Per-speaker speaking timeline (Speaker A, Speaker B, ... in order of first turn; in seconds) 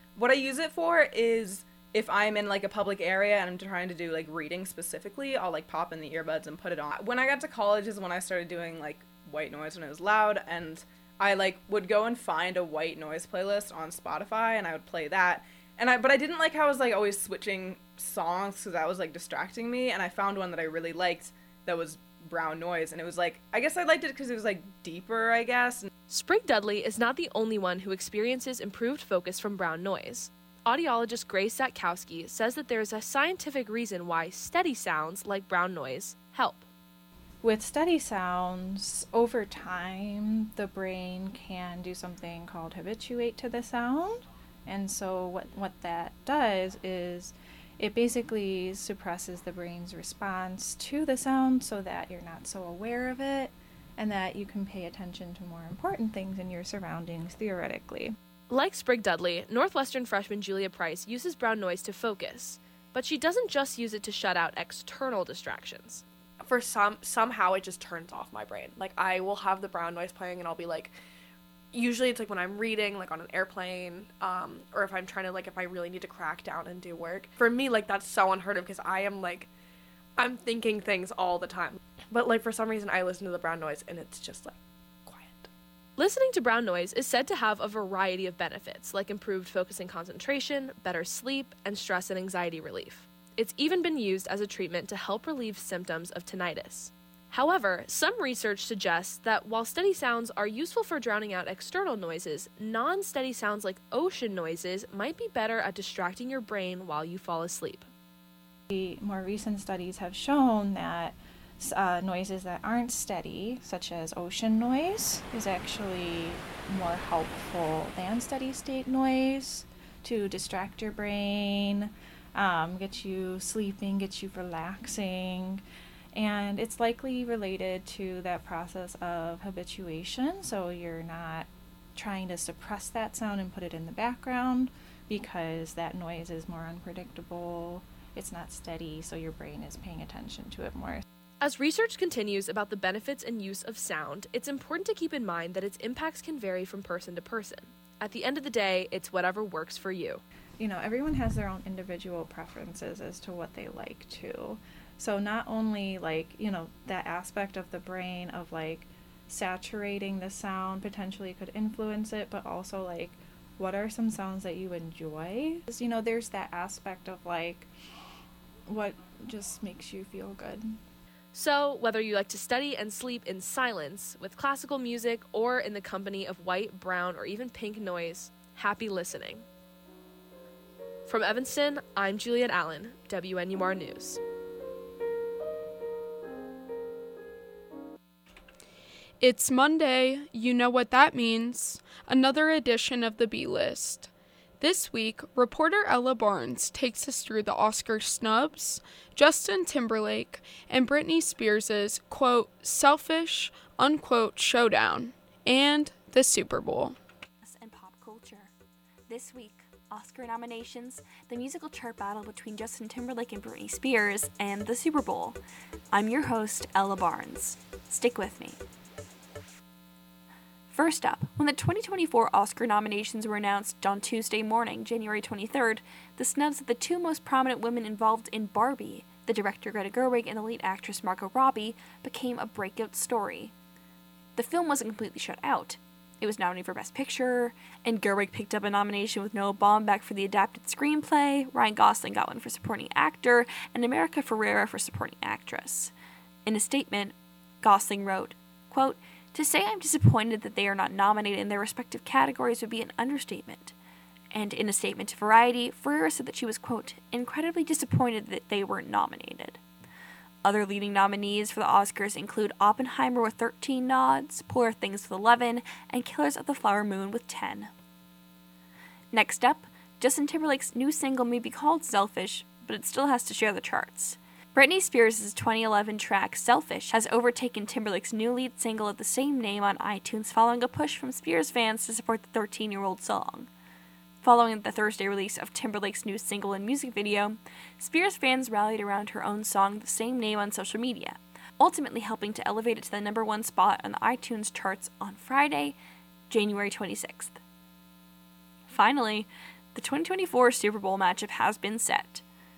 Speaker A: 0.1-25.9
Speaker B: 26.1-36.6, 58.5-66.0, 86.0-107.9, 141.4-150.2, 171.3-179.4, 181.1-184.2
Speaker C: 37.4-58.2, 108.7-125.6, 126.1-141.0, 150.6-167.7, 168.7-170.8
Speaker D: 66.4-71.0, 71.7-79.5, 80.2-85.5
Speaker E: 189.2-207.0
Speaker F: 207.4-208.5, 209.1-215.4, 215.9-218.6, 220.7-233.5, 234.3-245.9, 246.4-253.7, 254.3-259.6, 260.4-267.7, 269.1-283.5, 284.2-295.8, 296.3-297.4, 298.7-302.2